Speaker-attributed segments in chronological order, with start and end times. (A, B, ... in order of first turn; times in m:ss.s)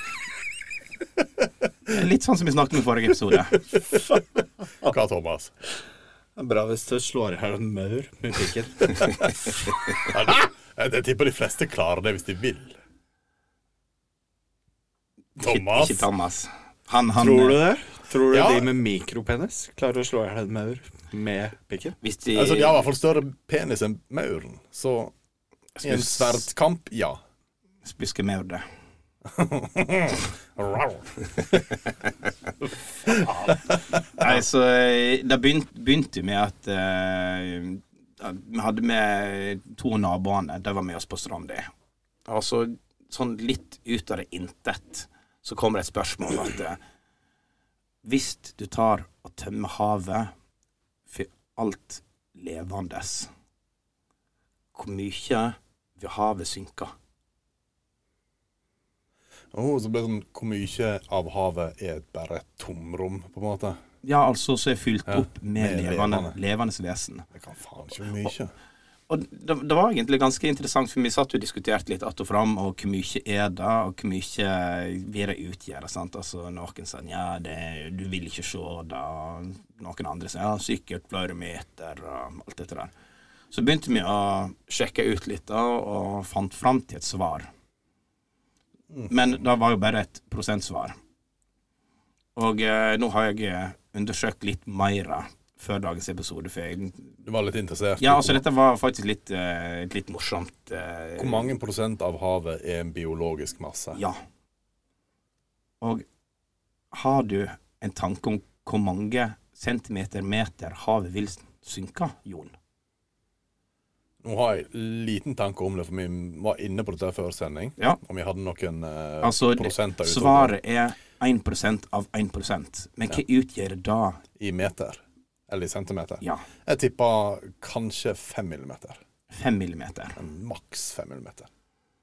0:01.9-0:03.6 A
0:04.8-0:05.5 B
0:06.4-0:09.1 C
0:10.0-0:12.7 B
0:15.4-0:16.1 B
0:15.4-0:17.6 A
0:17.2-0:22.0 C
0:18.3-0:18.7 B
0:22.0-0:22.8 A
0:22.3-0:25.1 B
0:25.8-0:26.5 A
0:25.8-0:27.2 B
0:27.8-0:28.6 A
0:29.3-0:31.6 B
0:33.0-0:34.3 B
0:34.2-0:41.7 A
0:42.2-0:46.8 A
0:48.0-0:50.3 A
0:51.1-0:53.3 A
0:54.7-0:56.9 A
0:59.5-1:03.8 B
1:04.0-1:07.2 A
1:05.1-1:06.3 B
1:07.3-1:08.5 B
1:09.1-1:22.9 A
1:23.5-1:27.5 A
1:29.1-1:31.0 A
1:32.4-1:37.1 A
1:37.2-1:38.4 B
1:38.0-1:41.5 A
1:41.2-1:44.0 B
1:43.9-1:44.2 A
1:46.9-1:52.5 A
1:54.2-2:00.5 B
1:59.2-2:04.2 A
2:04.4-2:09.0 B
2:09.3-2:10.2 A
2:10.2-2:11.5 B